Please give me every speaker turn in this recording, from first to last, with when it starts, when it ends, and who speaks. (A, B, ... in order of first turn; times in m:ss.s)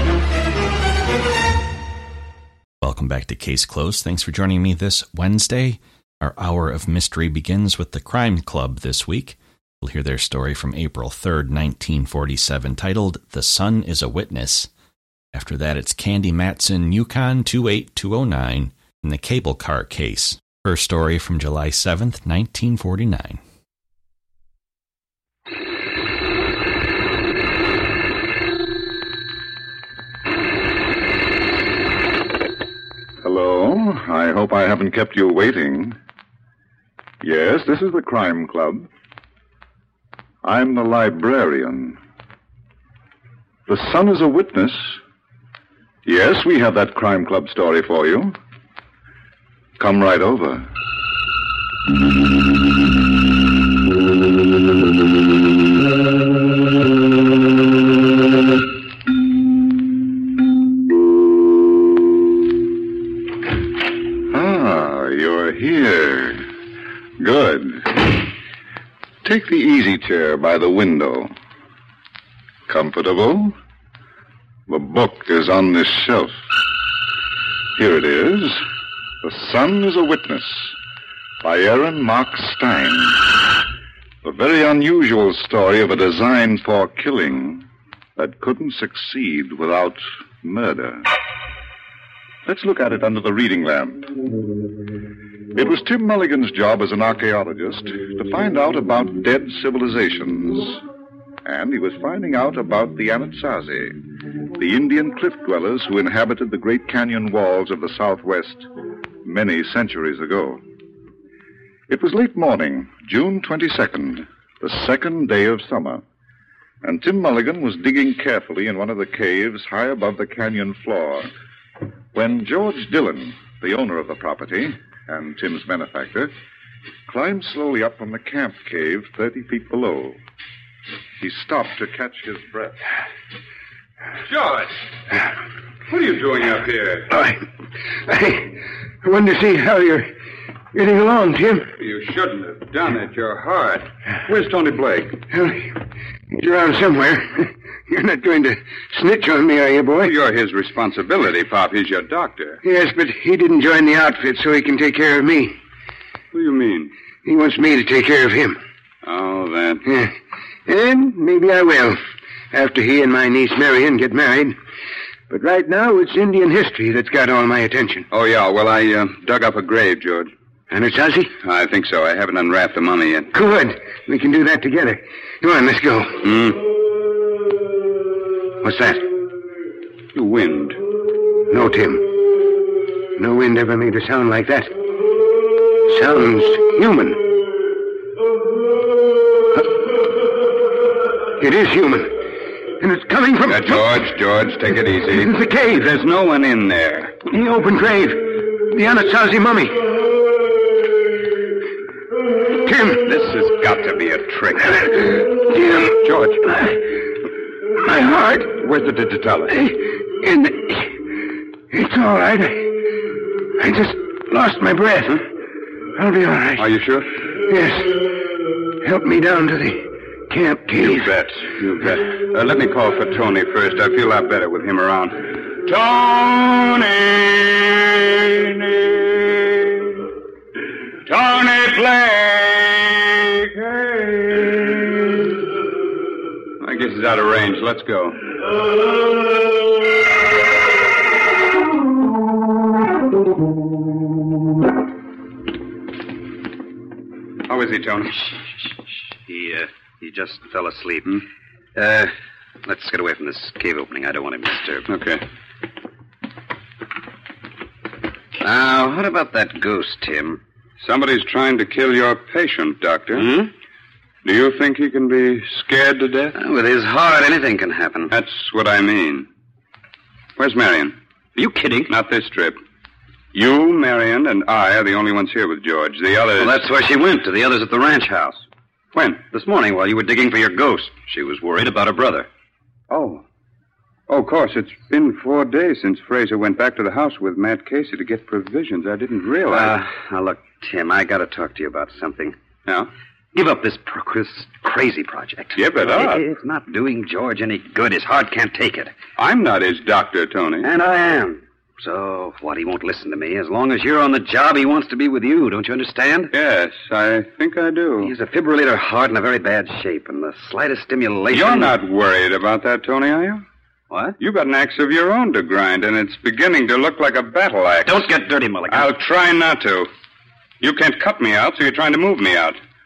0:02.8-0:14.7 A
0:15.3-0:23.4 A
0:33.2-0:36.0 B
0:37.2-0:38.9 B
0:40.4-0:42.0 B
0:43.7-0:45.0 B
0:46.0-0:48.4 B
0:49.8-0:50.7 B
1:04.3-1:06.5 B
1:07.2-1:08.1 B
1:09.2-1:11.3 B
1:12.7-1:13.6 B
1:14.7-1:16.4 B
1:17.8-1:18.6 B
1:19.2-1:20.8 B
1:21.4-1:23.3 B
1:24.2-1:31.1 B
1:32.4-1:34.1 B
1:35.5-1:40.8 B
1:41.4-1:44.0 B
1:44.6-1:48.7 B
1:49.2-1:50.6 B
1:51.9-1:56.0 B
1:56.8-2:01.3 B
2:02.1-2:06.3 B
2:07.1-2:10.2 B
2:11.2-2:12.8 B
2:14.3-2:14.7 C
2:15.9-2:17.1 C
2:17.1-2:17.4 D
2:18.1-2:20.1 D
2:20.7-2:21.7 D
2:21.8-2:25.2 C
2:25.3-2:25.8 D
2:26.3-2:30.1 D
2:30.0-2:32.6 C
2:32.6-2:35.6 D
2:36.3-2:36.9 C
2:37.2-2:38.6 D
2:39.0-2:39.8 C
2:39.9-2:40.1 D
2:40.7-2:42.0 D
2:42.5-2:44.6 D
2:45.3-2:48.1 D
2:48.1-2:50.3 C
2:50.7-2:51.3 D
2:51.4-2:53.3 C
2:53.3-2:56.2 D
2:56.2-2:56.6 C
2:58.6-2:59.1 D
3:00.2-3:00.8 C
3:01.5-3:02.1 D
3:03.2-3:04.7 D
3:05.9-3:07.2 D
3:11.4-3:12.2 D
3:12.8-3:13.8 D
3:13.5-3:17.2 C
3:15.1-3:15.9 D
3:17.3-3:19.8 D
3:22.6-3:23.0 D
3:23.0-3:25.2 C
3:25.4-3:26.0 D
3:26.0-3:26.7 C
3:27.8-3:28.5 D
3:28.5-3:29.7 C
3:29.7-3:31.0 D
3:31.7-3:32.8 D
3:33.6-3:35.2 D
3:36.0-3:36.6 D
3:36.6-3:37.2 C
3:37.5-3:38.0 D
3:38.8-3:41.1 D
3:40.8-3:50.0 C
3:51.1-3:55.2 C
3:56.6-3:58.2 C
4:07.5-4:08.3 C
4:09.3-4:11.2 E
4:11.8-4:12.1 E
4:12.6-4:14.9 E
4:14.9-4:15.2 C
4:18.4-4:20.4 E
4:20.8-4:23.3 C
4:23.1-4:23.5 E
4:24.2-4:26.4 C
4:26.4-4:28.1 E
4:28.1-4:29.3 C
4:30.4-4:31.0 C
4:31.4-4:31.9 E
4:31.9-4:32.6 C
4:33.3-4:36.6 C
4:36.4-4:38.4 E
4:39.1-4:42.3 E
4:42.9-4:43.2 C
4:44.1-4:49.8 C
4:49.5-4:52.4 E
4:53.3-4:58.9 E
4:55.6-4:56.2 C
4:59.2-5:00.7 C
5:00.6-5:06.3 E
5:06.3-5:08.1 C
5:08.0-5:11.8 E
5:11.3-5:13.4 C
5:13.9-5:14.2 E
5:14.2-5:18.1 C
5:17.8-5:19.0 E
5:18.7-5:19.9 C
5:20.6-5:22.6 C